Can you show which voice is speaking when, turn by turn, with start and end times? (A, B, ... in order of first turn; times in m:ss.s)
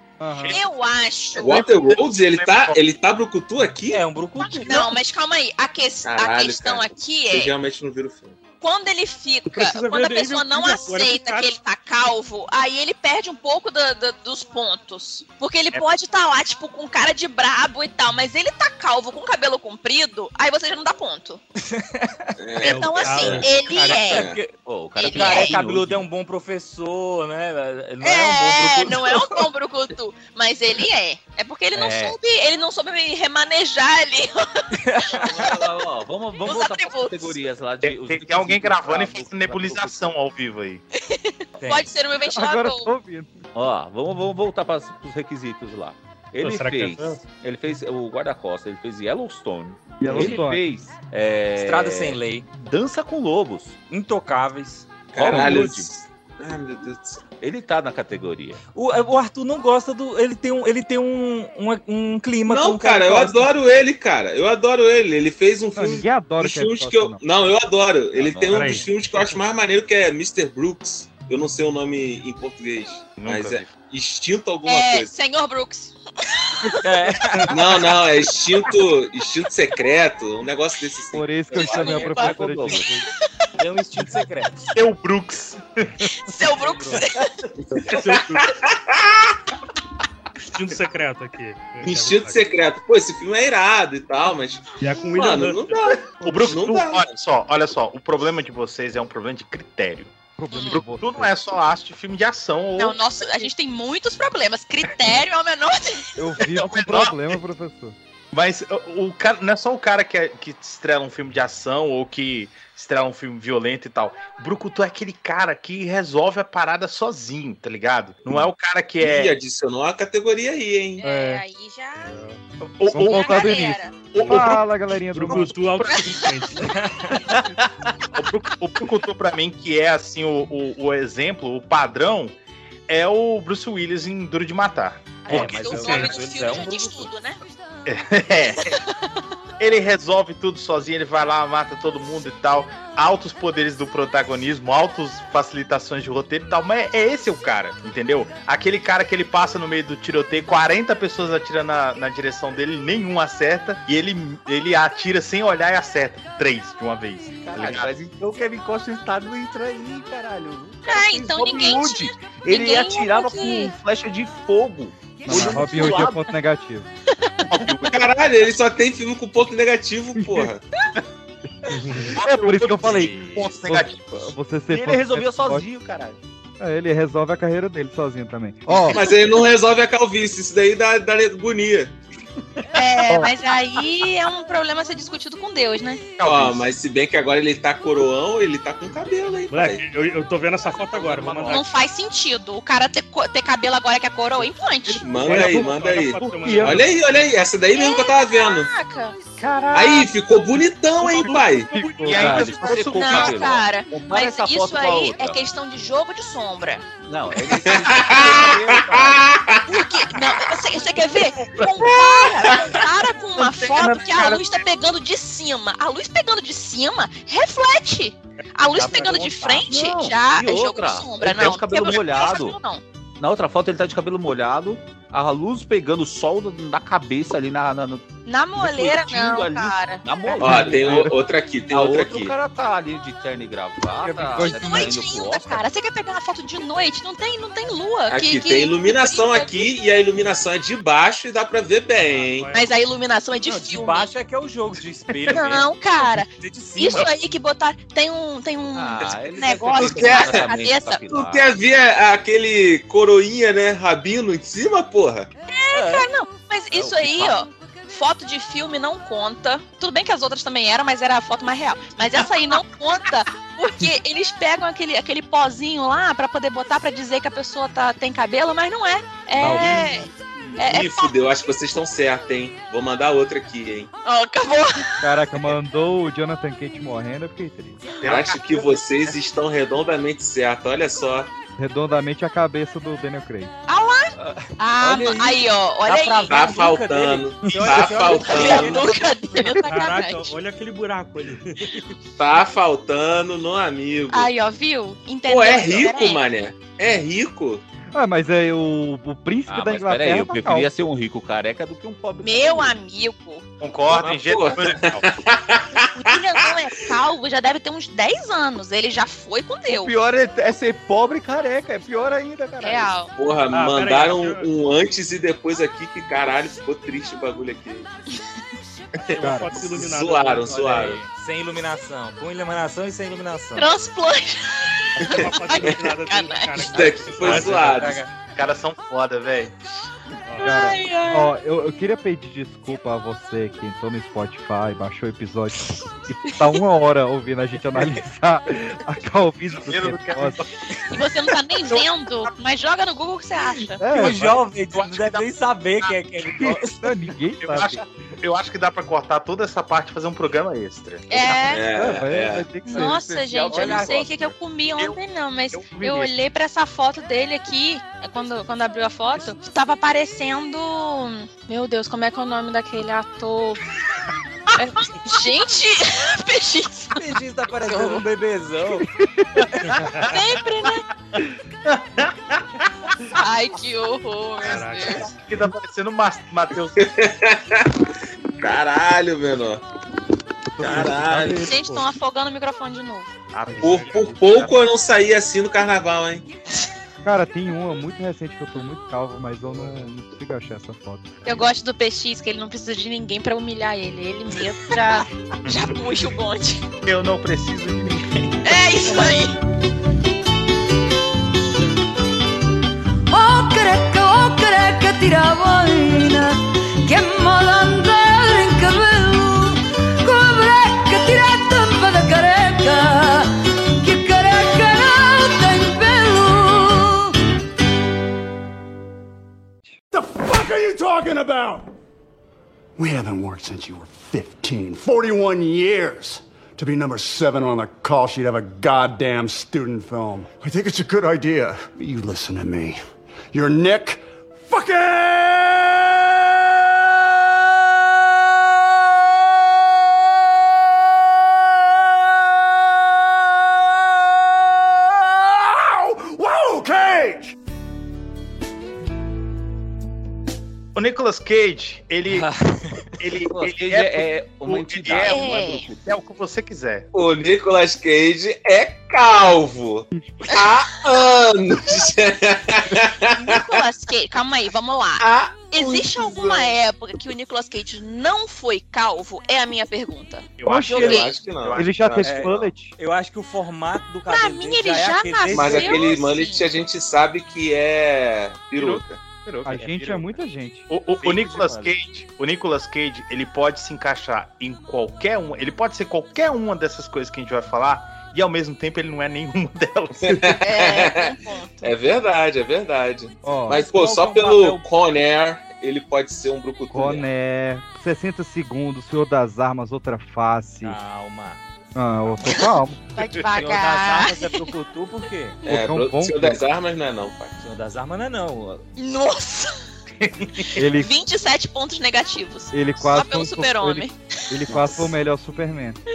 0:00.2-0:00.6 A
0:00.4-0:01.7 B
0:01.4-0:04.0 C
0:01.4-0:02.8 D
0:03.9-0:04.9 E
0:04.6-0:07.5 B
0:06.0-0:08.4 C
0:08.6-0:21.4 B
0:09.5-0:11.6 F
0:21.6-0:22.3 E
0:22.4-0:24.4 C
0:22.6-0:24.2 B
0:22.6-0:24.0 F
0:23.8-0:24.5 E
0:24.5-0:26.0 G
0:25.0-0:25.6 B
0:25.0-0:29.5 E
0:28.0-0:34.5 B
0:31.8-0:32.1 E
0:34.8-0:35.5 E
0:35.2-0:40.1 G
0:36.4-0:37.4 B
0:37.8-0:40.8 D
0:41.0-0:42.9 B
0:41.6-0:41.9 E
0:42.2-0:43.3 A
0:43.5-0:53.8 G
0:46.4-0:47.2 F
0:50.0-0:50.6 A
0:50.1-0:50.4 E
0:51.6-0:52.5 E
0:53.9-0:54.9 E
0:55.1-0:55.9 G
0:55.1-0:57.2 C
0:55.2-0:55.7 A
0:57.4-0:58.6 G
0:58.7-1:03.5 E
1:02.4-1:15.1 C
1:05.8-1:07.2 A
1:08.1-1:09.0 G
1:08.5-1:09.4 F
1:13.2-1:13.7 D
1:14.6-1:16.7 B
1:16.8-1:17.6 E
1:17.5-1:22.0 C
1:21.1-1:23.0 A
1:21.6-1:22.4 B
1:21.7-1:22.9 G
1:23.6-1:24.7 E
1:24.7-1:26.0 D
1:26.0-1:27.3 B
1:26.4-1:27.0 A
1:27.7-1:29.4 C
1:27.8-1:28.4 F
1:30.4-1:32.4 F
1:31.8-1:37.1 C
1:34.8-1:36.2 F
1:36.2-1:40.1 D
1:40.4-1:41.3 A
1:40.5-1:40.8 B
1:40.6-1:43.0 D
1:42.8-1:46.2 B
1:46.2-1:48.0 A
1:46.5-1:47.4 D
1:48.3-1:59.4 D
1:59.0-2:01.0 C
2:01.0-2:02.2 B
2:01.0-2:01.4 F
2:02.0-2:02.4 F
2:02.6-2:06.3 D
2:02.9-2:05.6 A
2:03.0-2:03.9 B
2:05.1-2:06.8 F
2:05.8-2:06.2 B
2:06.8-2:07.2 E
2:07.2-2:12.3 D
2:12.9-2:15.5 D
2:15.2-2:17.4 B
2:15.3-2:17.1 E
2:15.4-2:16.3 F
2:15.4-2:16.1 G
2:17.8-2:18.8 D
2:18.6-2:18.9 B
2:19.6-2:37.9 D
2:37.4-2:46.3 G
2:40.8-2:43.7 B
2:45.3-2:46.9 A
2:47.1-2:47.5 B
2:47.5-2:48.1 D
2:47.8-2:50.6 C
2:50.2-2:50.5 A
2:51.7-2:52.2 F
2:51.7-2:55.7 A
2:52.0-2:54.3 D
2:52.8-2:53.6 E
2:54.7-2:56.2 G
2:56.6-2:59.0 A
2:58.8-3:02.0 C
3:02.7-3:06.0 B
3:06.2-3:06.6 D
3:06.2-3:09.8 C
3:09.5-3:11.7 F
3:10.6-3:11.7 D
3:11.4-3:15.1 B
3:14.8-3:16.8 A
3:15.0-3:18.7 C
3:15.2-3:17.0 F
3:17.7-3:19.2 B
3:19.4-3:20.1 D
3:19.7-3:21.7 C
3:21.0-3:22.2 F
3:21.7-3:22.6 A
3:21.8-3:23.6 D
3:22.1-3:25.4 G
3:22.7-3:26.8 B
3:27.0-3:29.3 G
3:27.5-3:29.6 C
3:29.7-3:42.8 B
3:31.6-3:32.0 D
3:31.8-3:32.8 C
3:33.4-3:34.7 D
3:38.8-3:42.6 G
3:43.2-3:51.2 G
3:48.2-3:50.0 B
3:50.2-3:50.7 E
3:50.4-3:52.3 C
3:50.6-3:51.1 A
3:51.7-3:55.7 G
3:54.0-3:54.6 E
3:54.3-3:54.9 A
3:54.6-3:59.7 B
3:58.1-4:02.5 C
4:02.0-4:02.7 F
4:02.5-4:04.1 B
4:03.4-4:05.7 E
4:05.2-4:05.4 D
4:05.3-4:11.0 B
4:06.3-4:07.2 E
4:08.7-4:11.6 G
4:09.7-4:15.3 C
4:15.5-4:31.1 B
4:15.7-4:16.1 E
4:16.8-4:17.3 E
4:29.4-4:29.9 A
4:29.4-4:29.7 C
4:29.5-4:29.8 F
4:30.6-4:33.9 C
4:34.0-4:35.1 B
4:35.0-4:37.8 A
4:38.0-4:39.2 D
4:38.0-4:41.3 C
4:41.6-4:43.5 A
4:43.7-4:46.6 B
4:44.2-4:49.4 E
4:46.3-4:48.9 C
4:47.4-4:48.0 A
4:48.3-4:50.3 B
4:49.4-4:49.7 A
4:49.6-4:51.9 F
4:52.2-4:54.3 C
4:54.1-4:56.2 B
4:55.2-4:57.6 C
4:57.9-5:00.7 A
4:59.5-5:02.8 G
5:02.2-5:03.4 B
5:03.6-5:05.0 D
5:03.9-5:06.5 C
5:05.9-5:09.9 B
5:09.6-5:13.0 G
5:12.6-5:13.1 B
5:13.1-5:17.9 C
5:13.5-5:14.5 F
5:18.9-5:21.0 C
5:19.1-5:20.7 F
5:19.2-5:19.5 A
5:20.5-5:23.7 E
5:23.6-5:26.8 B
5:25.0-5:27.9 F
5:25.0-5:25.8 C
5:26.7-5:28.0 C
5:27.2-5:28.1 E
5:28.3-5:29.5 D
5:30.3-5:30.7 F
5:30.4-5:31.3 B
5:30.4-5:40.4 A
5:39.5-5:40.9 D
5:40.9-5:43.8 B
5:43.8-5:44.2 A
5:43.9-5:46.8 E
5:44.0-5:45.3 D
5:45.8-5:46.5 D
5:46.4-5:47.8 A
5:47.4-5:51.4 D
5:51.1-5:51.6 B
5:51.5-5:52.5 C
5:51.7-5:53.0 A
5:52.6-6:03.6 B
5:52.7-5:54.4 G
5:53.5-5:53.9 E
5:55.5-5:56.1 D
6:04.5-6:07.0 B
6:06.9-6:08.9 E
6:07.6-6:08.0 B
6:09.0-6:09.4 A
6:09.7-6:10.1 F
6:10.0-6:10.8 B
6:11.6-6:12.7 D
6:13.1-6:15.0 B
6:14.4-6:15.1 F
6:15.0-6:16.9 D
6:16.8-6:17.7 C
6:18.4-6:19.6 C
6:20.5-6:21.8 A
6:20.6-6:21.5 C
6:21.4-6:21.8 F
6:21.4-6:23.1 B
6:23.3-6:24.6 D
6:23.5-6:24.4 F
6:23.6-6:26.2 C
6:27.0-6:31.2 A
6:31.2-6:36.6 B
6:36.8-6:38.4 D
6:38.4-6:39.4 B
6:38.9-6:39.2 D
6:43.1-6:57.1 H
6:59.9-7:01.7 I
7:02.8-7:12.8 I
7:13.3-7:27.3 I
7:30.7-7:32.3 D
7:32.1-7:32.8 E
7:33.0-7:35.2 D
7:33.2-7:35.8 G
7:35.0-7:35.7 B
7:35.8-7:36.9 D
7:36.9-7:43.5 C
7:43.1-7:51.1 B
7:45.0-7:46.5 C
7:50.4-7:52.1 D
7:50.4-7:52.7 A
7:50.7-7:52.3 C
7:52.0-7:55.9 E
7:54.1-7:56.4 B
7:55.3-7:59.0 C
7:58.6-8:00.0 D
7:59.4-8:00.7 A
7:59.6-7:59.9 E
8:00.7-8:10.3 D
8:01.0-8:01.7 E
8:10.0-8:17.0 C
8:10.4-8:11.7 B
8:13.2-8:13.6 A
8:13.5-8:14.6 E
8:16.7-8:20.8 A
8:20.6-8:21.4 E
8:21.7-8:22.8 A
8:23.0-8:24.3 B
8:23.0-8:23.3 D
8:23.4-8:25.4 E
8:25.4-8:27.4 C
8:25.4-8:26.4 A
8:27.4-8:28.6 E
8:28.8-8:29.6 B
8:30.0-8:30.5 D
8:30.5-8:30.9 A
8:30.5-8:34.0 B
8:32.5-8:35.8 A
8:34.5-8:34.8 B